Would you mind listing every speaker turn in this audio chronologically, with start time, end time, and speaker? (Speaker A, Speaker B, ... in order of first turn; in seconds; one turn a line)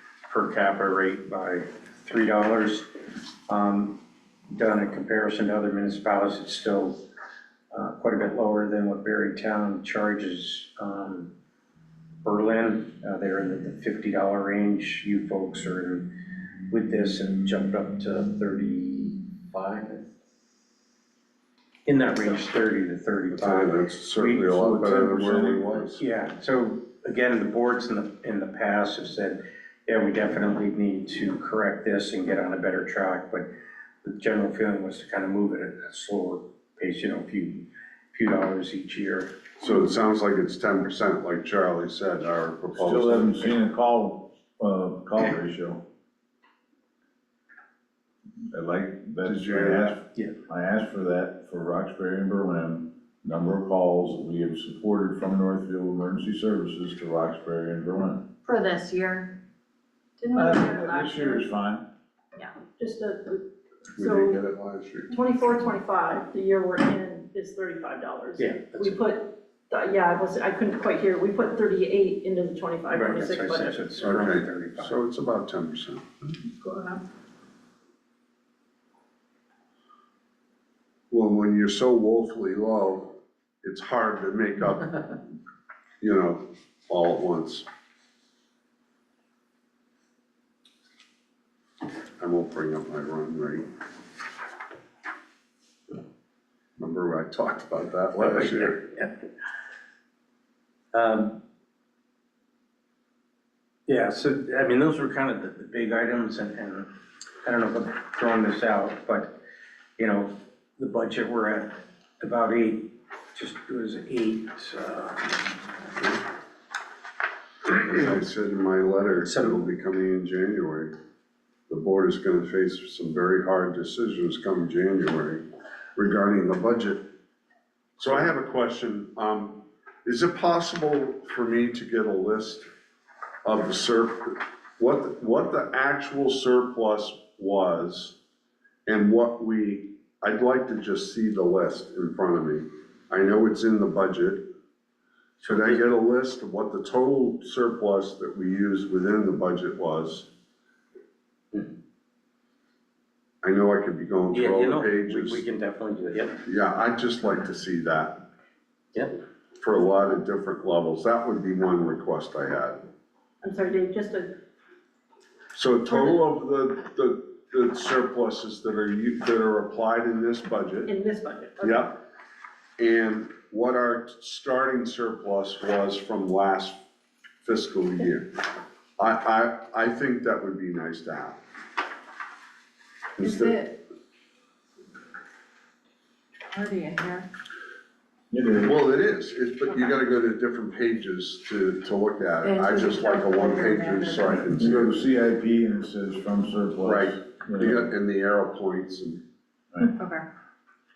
Speaker A: 0.3-2.9
Speaker A: 3.5-4.0
Speaker A: 4.5-7.0
Speaker A: 7.7-11.3
Speaker A: 12.2-16.2
Speaker A: 16.7-20.1
Speaker A: 21.9-25.3
Speaker B: 23.3-26.0
Speaker C: 25.1-25.9
Speaker A: 26.0-33.5
Speaker A: 34.0-39.3
Speaker B: 39.6-43.6
Speaker C: 42.8-45.8
Speaker C: 48.5-58.3
Speaker B: 49.2-50.0
Speaker D: 58.4-59.4
Speaker D: 60.2-61.5
Speaker C: 60.3-61.9
Speaker E: 62.6-64.4
Speaker B: 64.0-65.1
Speaker E: 65.1-74.0
Speaker A: 68.4-69.0
Speaker A: 72.9-75.0
Speaker B: 74.0-76.1
Speaker E: 76.3-77.0
Speaker B: 81.1-85.2
Speaker B: 86.0-87.7
Speaker B: 92.2-93.7
Speaker B: 96.8-98.8
Speaker A: 98.2-99.1
Speaker A: 100.9-101.4
Speaker A: 103.9-106.9
Speaker A: 107.4-109.3
Speaker A: 110.0-115.4
Speaker B: 117.7-120.9
Speaker A: 119.2-119.6
Speaker B: 121.7-125.4
Speaker B: 126.0-127.1
Speaker B: 128.0-132.7
Speaker B: 133.4-138.2
Speaker B: 138.9-144.5
Speaker A: 145.4-145.8
Speaker B: 145.5-150.3
Speaker B: 153.4-155.4
Speaker A: 154.3-156.4
Speaker B: 156.4-158.2
Speaker B: 159.6-162.8
Speaker E: 163.4-164.4
Speaker B: 165.5-170.9
Speaker E: 170.8-171.9
Speaker B: 171.6-172.0
Speaker B: 172.8-176.8
Speaker B: 177.4-178.3
Speaker B: 179.0-181.4
Speaker B: 183.2-183.8
Speaker D: 183.2-183.6
Speaker D: 186.5-187.3
Speaker C: 188.3-188.7
Speaker B: 188.6-195.0
Speaker D: 192.4-194.5
Speaker C: 194.5-197.8
Speaker B: 196.8-199.2
Speaker D: 199.8-200.2